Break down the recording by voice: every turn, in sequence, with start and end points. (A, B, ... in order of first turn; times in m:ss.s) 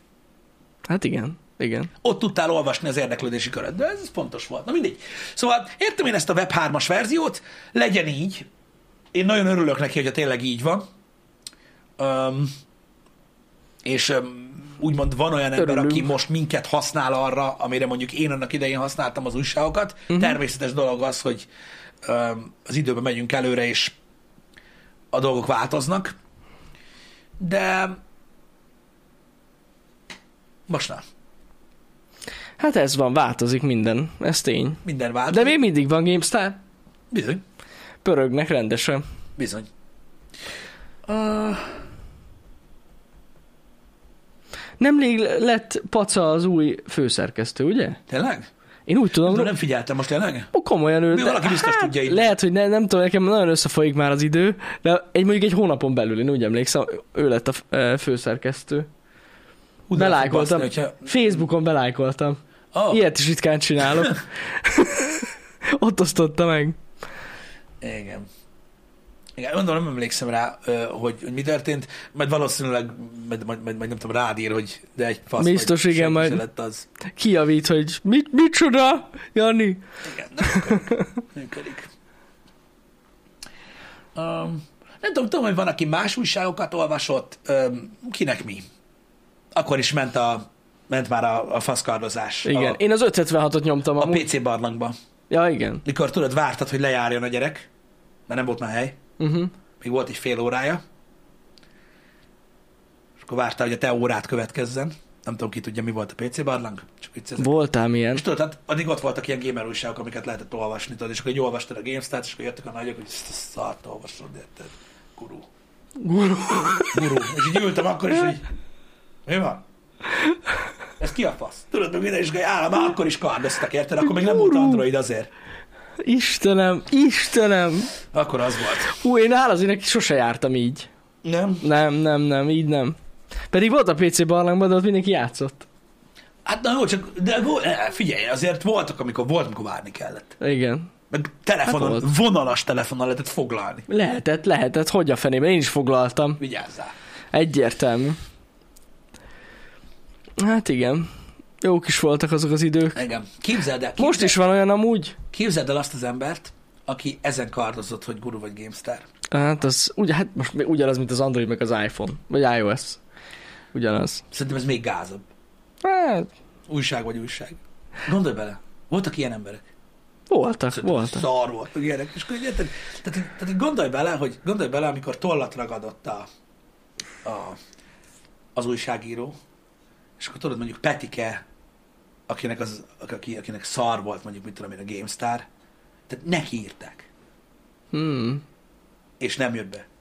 0:00.9-0:01.9 A
0:02.0-0:08.5 B
0:09.1-0:10.8 B
0:12.0-0:12.5 B
0:13.8-0:21.5 B
0:15.6-0:16.1 A
0:22.0-0:23.9 B
0:25.1-0:26.1 B
0:27.4-0:28.0 B
0:30.7-0:31.0 B
0:32.6-0:36.6 A
0:34.8-0:35.6 B
0:37.1-0:37.4 B
0:38.0-0:39.0 A
0:39.4-0:39.7 B
0:41.0-0:41.7 B
0:44.8-0:48.0 A
0:48.1-0:48.5 B
0:48.9-0:49.5 A
0:49.2-0:50.5 B
0:50.5-0:58.9 A
0:51.1-0:52.3 B
0:59.9-1:01.4 B
0:59.9-1:02.4 A
1:02.7-1:03.0 B
1:02.9-1:06.8 A
1:07.8-1:08.3 B
1:09.4-1:16.8 B
1:15.4-1:16.4 A
1:17.1-1:19.8 A
1:20.0-1:21.9 B
1:20.4-1:21.1 A
1:24.1-1:28.6 B
1:29.5-1:32.8 B
1:32.4-1:34.2 A
1:34.0-1:34.9 B
1:35.3-1:35.8 A
1:35.8-1:37.7 B
1:38.3-1:39.0 B
1:39.2-1:39.5 A
1:39.8-1:40.8 B
1:43.2-1:47.5 B
1:47.4-1:48.2 A
1:48.1-1:55.5 B
1:56.0-1:57.0 A
1:56.9-1:58.4 B
1:59.2-1:59.6 B
2:01.0-2:05.3 B
2:04.0-2:04.8 A
2:06.0-2:07.9 A
2:08.1-2:08.9 B
2:08.9-2:10.9 A
2:11.2-2:11.6 B
2:11.6-2:13.0 A
2:13.5-2:15.7 A
2:16.4-2:20.3 B
2:20.4-2:20.9 A
2:21.1-2:23.8 B
2:21.6-2:22.1 A
2:23.9-2:26.4 A
2:26.4-2:26.9 B
2:27.3-2:28.2 A
2:30.4-2:31.1 A
2:31.6-2:33.0 A
2:32.9-2:34.4 B
2:34.0-2:35.2 A
2:35.3-2:39.0 B
2:39.3-2:43.0 A
2:43.7-2:44.2 A
2:44.3-2:45.2 B
2:45.8-2:46.3 A
2:46.7-2:49.6 B
2:50.3-2:51.2 A
2:50.7-2:56.2 B
2:57.2-2:57.6 B
2:58.5-2:59.4 B
3:00.2-3:01.4 B
3:02.3-3:05.4 B
3:06.1-3:07.1 B
3:07.9-3:08.4 A
3:09.2-3:09.8 B